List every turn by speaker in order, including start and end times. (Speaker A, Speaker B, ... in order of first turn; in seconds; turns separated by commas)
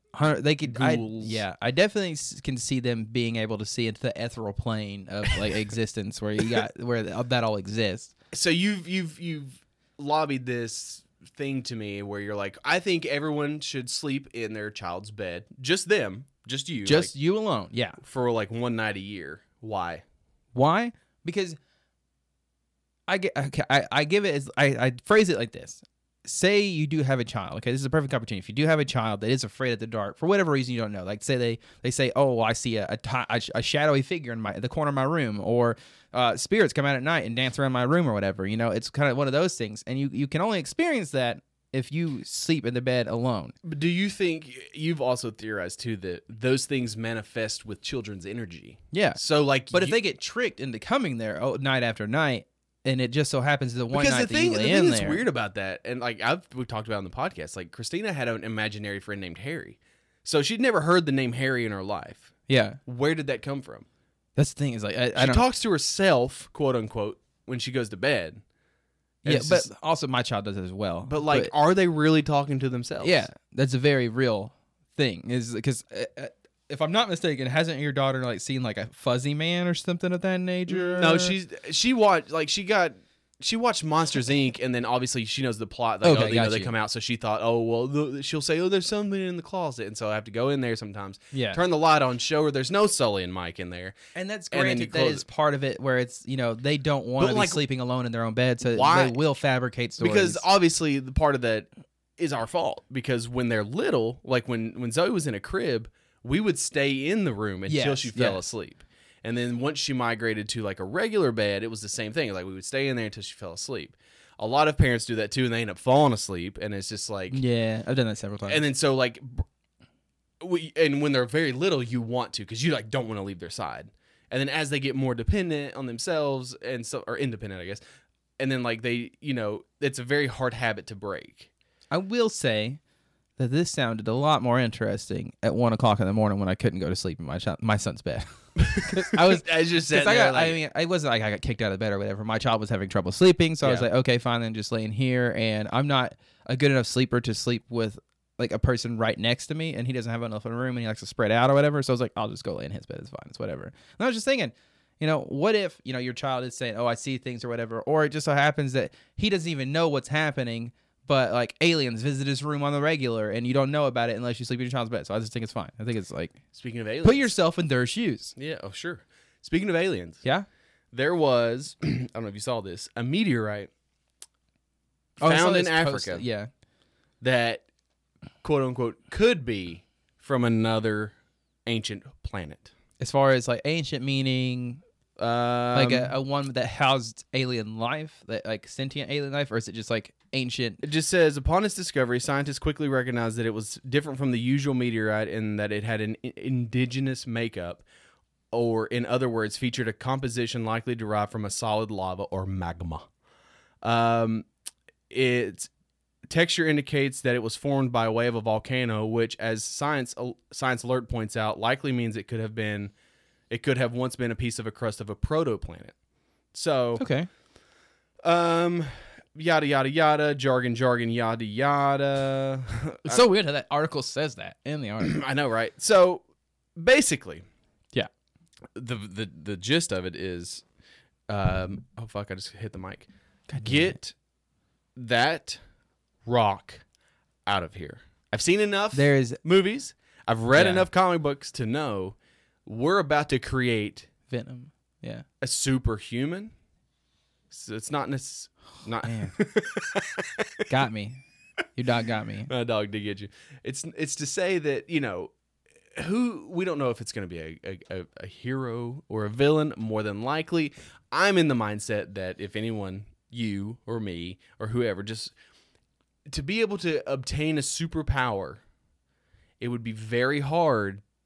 Speaker A: 0.1-8.1, Speaker B: 0.7-1.4, Speaker B: 8.3-17.1, Speaker A: 16.9-18.0, Speaker B: 18.0-20.0, Speaker A: 20.5-21.6, Speaker A: 23.1-43.5, Speaker B: 43.6-50.0, Speaker A: 48.9-49.2, Speaker A: 49.7-55.2, Speaker B: 53.9-62.3, Speaker A: 62.5-62.8, Speaker B: 62.9-63.9, Speaker A: 64.4-65.4, Speaker B: 65.2-68.4, Speaker B: 69.2-69.7, Speaker A: 69.3-71.5, Speaker B: 71.1-73.3, Speaker A: 73.0-81.4, Speaker B: 80.7-94.0, Speaker A: 86.0-86.8, Speaker A: 91.3-91.6, Speaker A: 94.2-100.4, Speaker B: 94.5-95.2, Speaker B: 97.2-97.6, Speaker B: 98.7-99.2, Speaker B: 100.0-117.4, Speaker A: 107.7-108.4, Speaker A: 117.3-118.7, Speaker B: 118.5-119.5, Speaker B: 120.4-127.8, Speaker B: 128.4-131.5, Speaker A: 131.9-132.8, Speaker A: 133.4-138.3, Speaker B: 138.6-140.6, Speaker A: 138.9-166.4, Speaker B: 143.6-143.9, Speaker B: 166.5-167.3, Speaker A: 167.0-168.3, Speaker B: 168.4-170.2, Speaker B: 170.9-173.7, Speaker A: 175.2-176.5, Speaker B: 175.2-176.2, Speaker B: 177.2-177.7, Speaker B: 178.4-181.2, Speaker B: 181.7-182.7, Speaker A: 183.0-184.8, Speaker B: 185.2-186.2, Speaker A: 185.7-190.8, Speaker B: 190.8-197.8, Speaker B: 198.5-203.1, Speaker B: 203.8-204.5, Speaker B: 205.1-205.7, Speaker B: 206.3-212.9, Speaker B: 213.5-215.9, Speaker B: 216.5-217.0, Speaker A: 217.0-217.3, Speaker B: 218.2-223.2, Speaker A: 223.1-225.2, Speaker B: 225.0-226.2, Speaker B: 226.8-227.4, Speaker B: 228.8-230.7, Speaker B: 231.3-234.1, Speaker A: 233.5-234.0, Speaker B: 235.0-235.6, Speaker B: 236.2-236.8, Speaker B: 237.5-244.1, Speaker A: 238.9-239.4, Speaker A: 240.6-240.9, Speaker A: 244.3-245.2, Speaker B: 245.4-246.5, Speaker B: 247.5-250.5, Speaker A: 249.0-249.4, Speaker A: 250.7-251.2, Speaker A: 251.7-252.5, Speaker B: 252.5-255.3, Speaker B: 255.9-265.3, Speaker B: 266.3-268.6, Speaker B: 269.6-271.0